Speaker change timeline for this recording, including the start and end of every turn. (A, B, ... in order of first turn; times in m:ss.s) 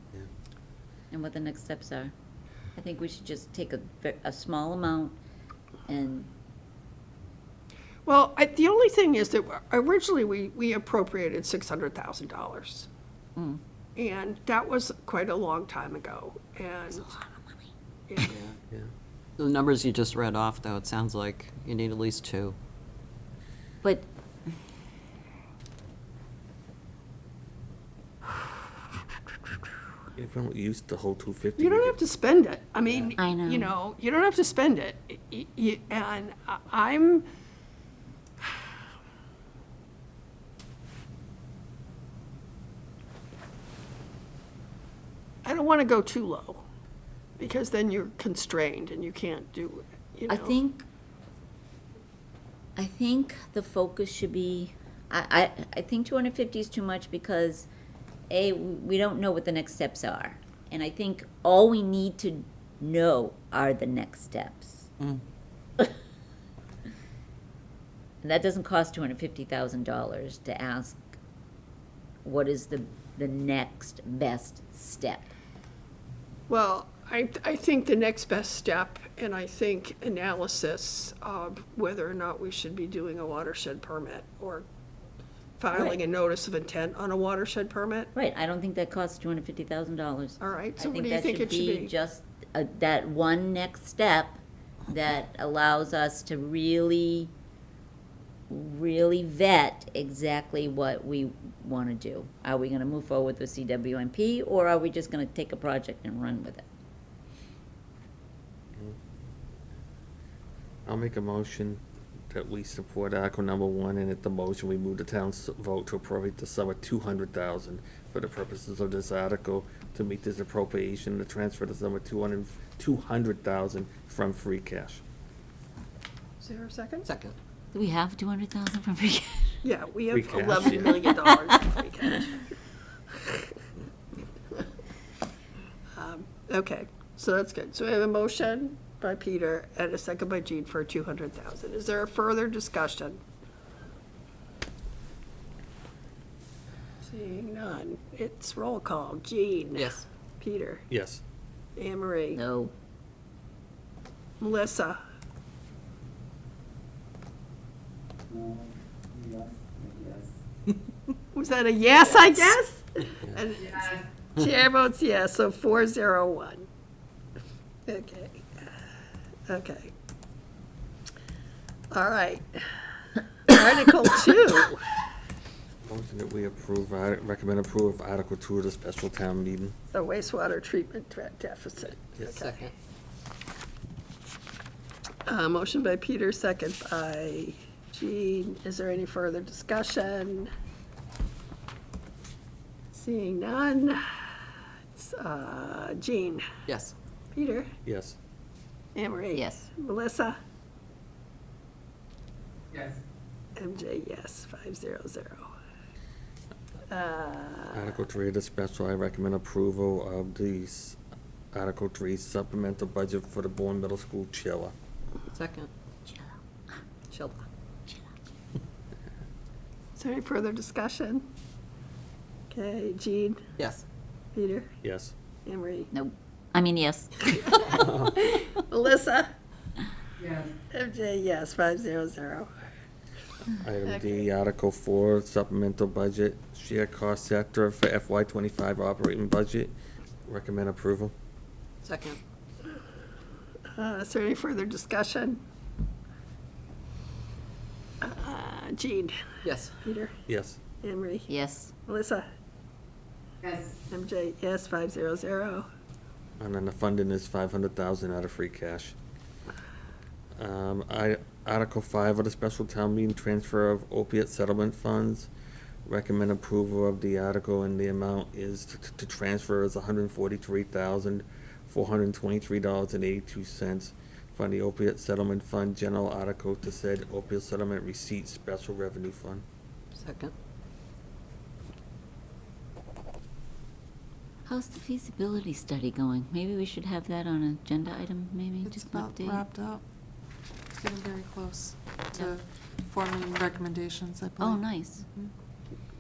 0:01.1-0:02.1 A
0:02.8-0:05.2 A
0:05.9-0:06.3 A
0:08.0-0:12.9 B
0:14.0-0:17.1 B
0:18.1-0:18.4 B
0:18.2-0:18.5 C
0:19.4-0:22.6 C
0:30.1-0:32.0 D
0:31.6-0:37.2 B
0:33.2-0:33.7 A
0:45.4-0:46.6 B
0:47.4-0:50.6 B
0:50.3-0:50.8 A
0:52.8-0:57.7 A
0:58.3-1:04.9 A
1:08.2-1:11.0 A
1:12.2-1:15.3 A
1:16.5-1:24.6 B
1:25.6-1:28.1 B
1:25.7-1:26.0 A
1:28.1-1:37.3 A
1:30.4-1:31.9 B
1:38.5-1:46.6 A
1:50.8-2:05.0 D
2:06.4-2:07.1 B
2:07.0-2:07.3 C
2:07.7-2:09.6 A
2:09.6-2:12.4 B
2:10.1-2:11.0 D
2:10.6-2:12.2 A
2:16.0-2:23.2 B
2:27.0-2:30.8 B
2:29.8-2:30.0 C
2:30.9-2:31.2 D
2:31.8-2:32.4 B
2:32.3-2:32.7 A
2:34.4-2:35.0 B
2:39.1-2:40.3 C
2:41.3-2:46.6 B
2:47.9-2:48.7 B
2:49.5-2:49.9 B
2:51.9-2:52.9 B
2:53.4-2:54.8 B
2:55.8-2:59.7 D
2:59.9-3:02.7 B
3:02.2-3:02.7 C
3:05.2-3:10.5 B
3:12.9-3:14.3 B
3:14.9-3:16.4 B
3:16.7-3:16.9 C
3:17.3-3:17.7 B
3:17.8-3:18.2 D
3:18.9-3:20.4 B
3:19.3-3:19.7 A
3:23.6-3:25.5 B
3:26.9-3:27.8 B
3:27.7-3:31.0 D
3:31.5-3:34.7 D
3:35.3-3:35.7 C
3:37.1-3:37.4 C
3:40.0-3:41.2 B
3:42.5-3:43.4 B
3:43.6-3:43.8 C
3:44.3-3:44.7 B
3:44.8-3:45.1 D
3:45.4-3:45.9 B
3:45.9-3:47.5 A
3:47.3-3:49.3 B
3:47.7-3:48.1 D
3:50.2-3:50.5 C
3:50.7-3:52.5 B
3:53.5-3:59.7 D
3:53.8-3:54.2 B
4:00.3-4:01.1 D
4:01.8-4:02.2 C
4:03.7-4:05.4 B
4:08.0-4:09.2 B
4:09.4-4:09.8 C
4:09.8-4:10.1 B
4:10.3-4:10.6 D
4:10.8-4:11.3 B
4:11.3-4:11.7 A
4:11.8-4:12.3 B
4:13.9-4:15.7 B
4:16.4-4:19.0 D
4:20.4-4:25.3 D
4:25.8-4:39.4 D
4:40.0-4:40.3 C
4:44.4-4:49.4 A
4:48.6-4:49.8 E
4:50.7-4:55.3 E
4:54.4-4:55.0 A